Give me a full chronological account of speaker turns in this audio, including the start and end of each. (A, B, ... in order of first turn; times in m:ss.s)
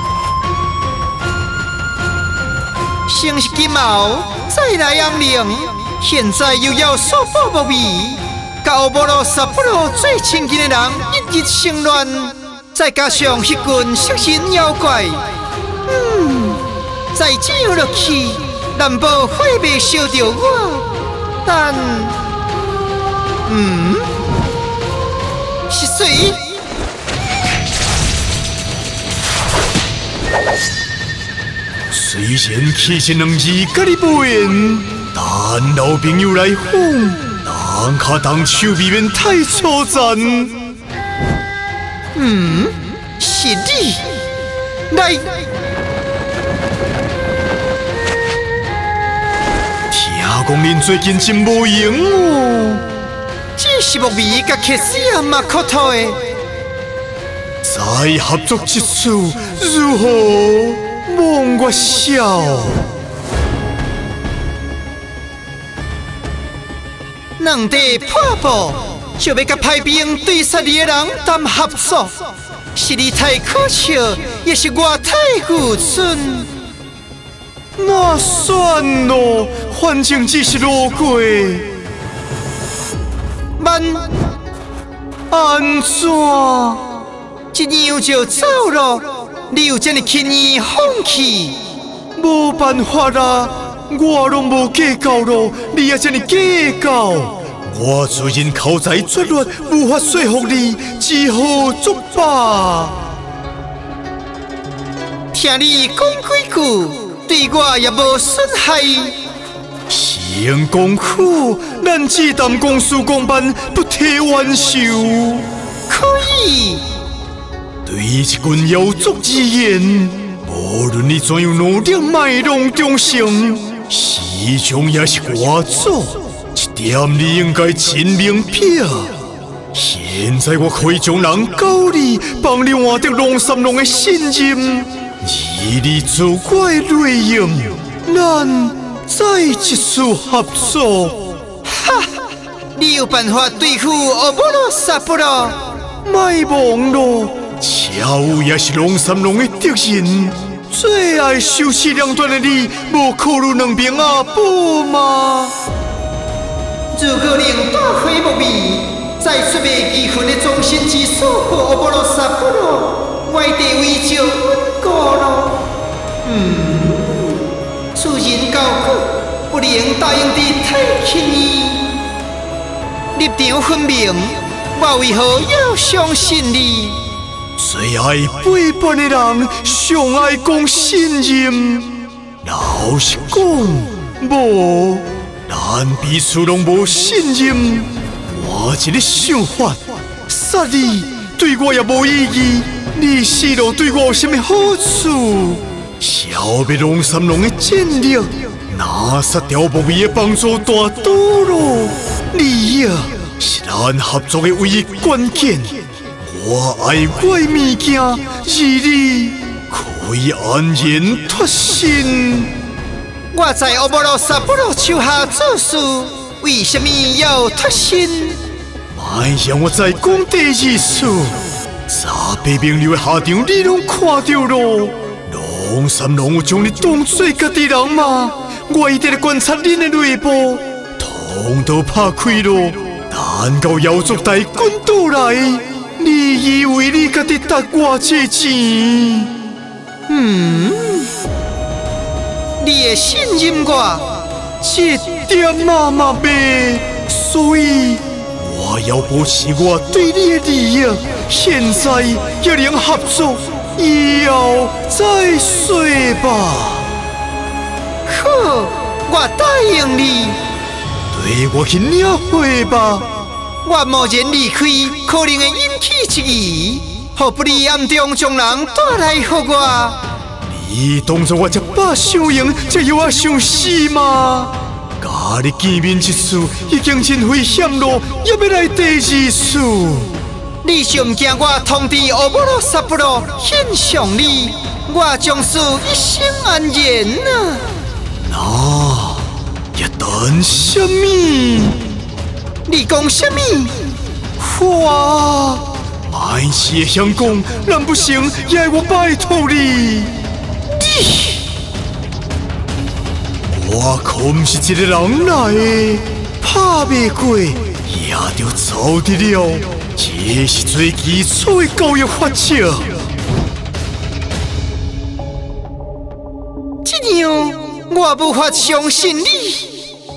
0:03.0-0:22.3 A
0:23.4-0:24.2 A
0:25.7-0:26.6 A
0:31.9-0:40.7 B
0:42.1-0:44.2 A
0:44.9-0:45.5 A
0:49.9-0:52.9 B
0:53.6-0:56.3 A
0:57.6-1:02.9 B
1:07.4-1:16.5 A
1:17.8-1:21.8 B
1:23.6-1:24.2 A
1:25.3-1:27.0 B
1:27.5-1:31.7 A
1:32.2-1:43.1 B
1:45.3-1:49.2 A
1:49.9-1:55.5 B
1:55.9-1:57.0 A
1:57.8-2:09.2 B
2:09.7-2:21.4 B
2:21.6-2:25.9 A
2:26.0-2:35.6 B
2:36.9-2:45.7 A
2:46.2-2:52.0 A
2:53.1-2:57.2 A
2:57.6-3:32.6 B
3:33.3-3:38.4 A
3:38.9-3:59.4 B
4:00.1-4:01.1 A
4:02.6-4:04.4 A
4:04.6-4:16.9 B
4:18.0-4:20.5 A
4:21.1-4:23.3 B
4:23.6-4:30.2 A
4:30.4-4:40.2 B
4:40.6-4:47.7 A
4:48.2-4:51.9 B
4:52.6-4:54.0 A
4:54.4-5:01.4 B
5:03.5-5:13.0 B
5:16.8-5:19.9 A